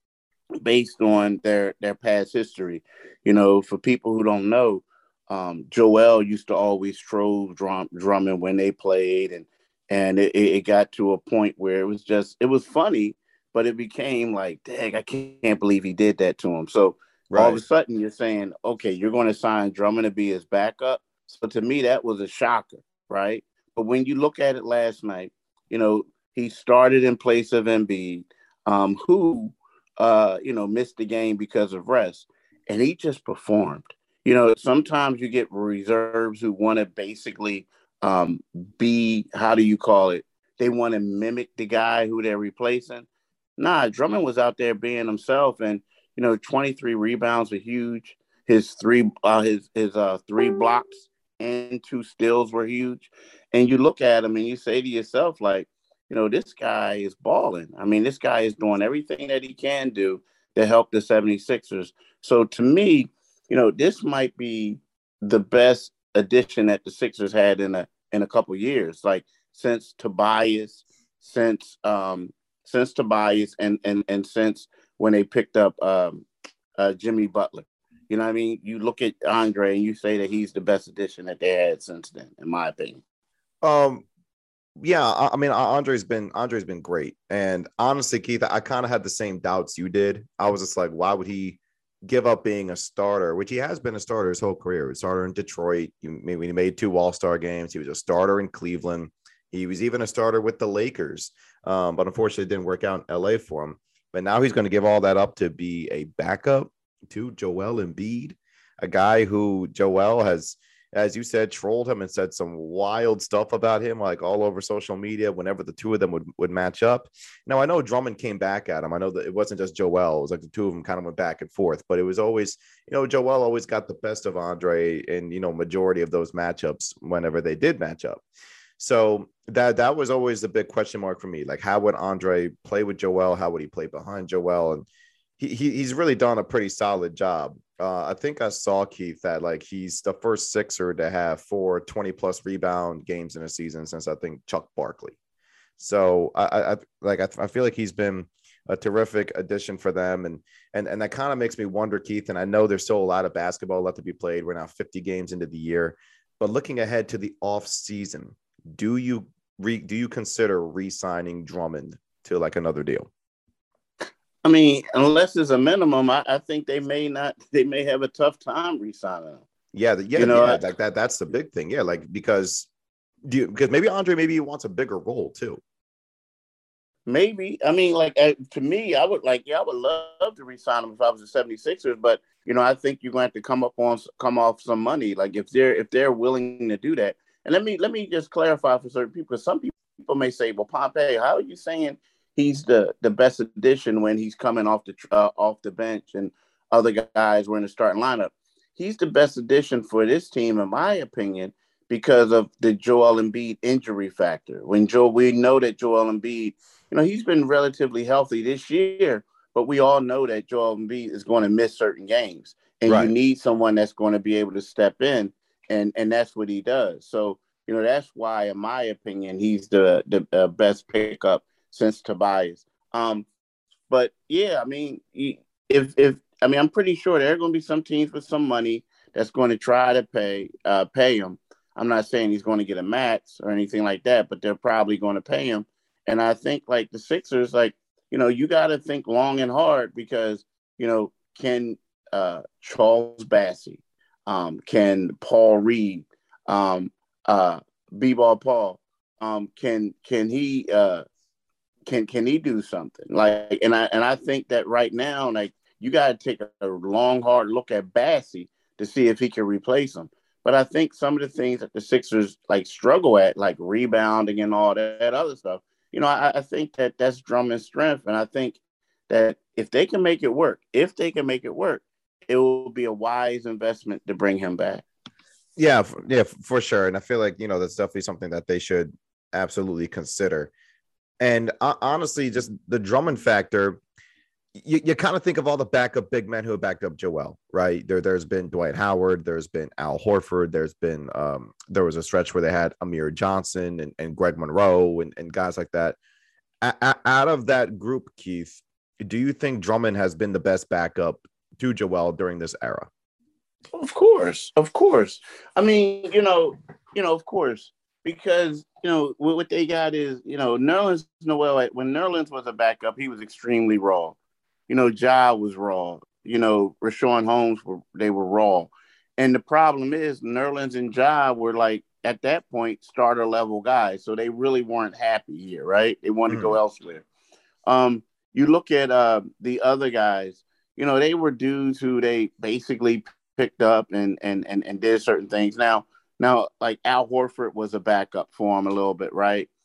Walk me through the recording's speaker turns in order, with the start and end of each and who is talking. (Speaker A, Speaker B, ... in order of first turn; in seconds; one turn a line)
Speaker A: 0.6-43.1
Speaker B: 17.3-17.6
Speaker A: 43.6-76.3
Speaker A: 76.8-83.0
Speaker B: 83.6-84.0
Speaker B: 84.8-128.2
Speaker B: 128.8-134.9
Speaker B: 135.4-145.2
Speaker B: 145.8-163.1
Speaker A: 164.4-169.4
Speaker B: 169.7-172.7
Speaker A: 170.2-170.6
Speaker B: 173.3-175.6
Speaker A: 177.1-223.3
Speaker B: 212.9-213.1
Speaker A: 223.9-251.0
Speaker A: 251.9-274.9
Speaker B: 275.6-280.5
Speaker B: 281.2-283.8
Speaker B: 284.6-296.0
Speaker B: 296.6-302.9
Speaker A: 303.7-314.2
Speaker A: 314.7-327.1
Speaker B: 326.3-326.6
Speaker A: 327.7-339.5